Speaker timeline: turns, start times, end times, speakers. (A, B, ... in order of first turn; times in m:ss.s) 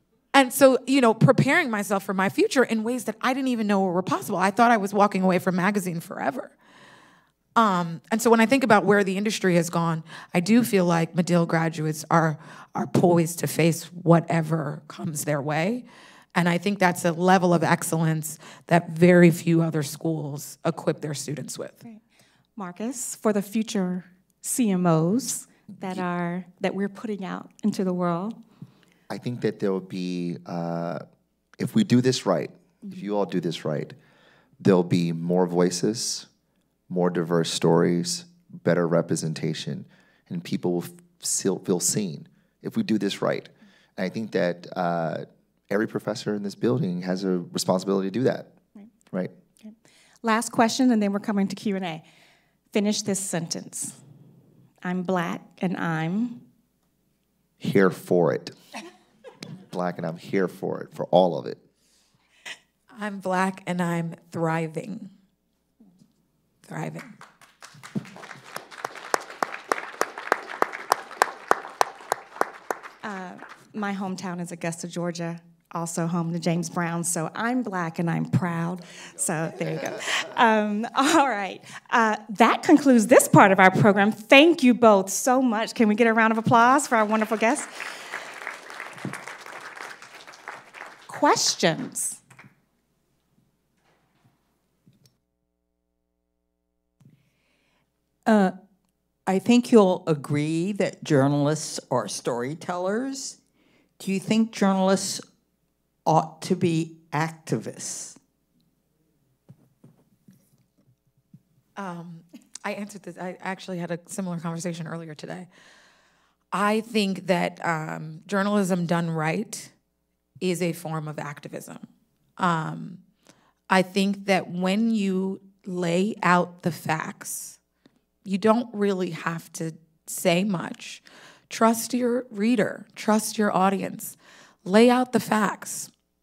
0:00.3-0:06.5 A
0:07.6-0:21.8 A
0:22.6-0:28.4 B
0:29.1-0:31.0 C
0:31.6-0:34.0 C
0:34.6-0:36.3 C
0:36.9-0:48.5 C
0:49.6-0:52.0 B
0:52.7-0:54.0 B
0:54.8-0:56.5 B
0:57.6-0:58.6 C
0:59.7-1:01.6 C
1:03.0-1:05.1 A
1:06.7-1:07.2 A
1:13.0-1:27.7 B
1:31.1-1:32.2 B
1:38.3-1:38.6 D
1:39.3-1:43.4 D
1:44.0-1:45.2 D
1:46.0-1:48.2 D
1:51.8-1:55.5 A
1:56.5-1:59.7 A
2:00.4-2:01.9 A
2:02.4-2:03.0 A
2:03.7-2:07.6 A
2:08.3-2:15.9 A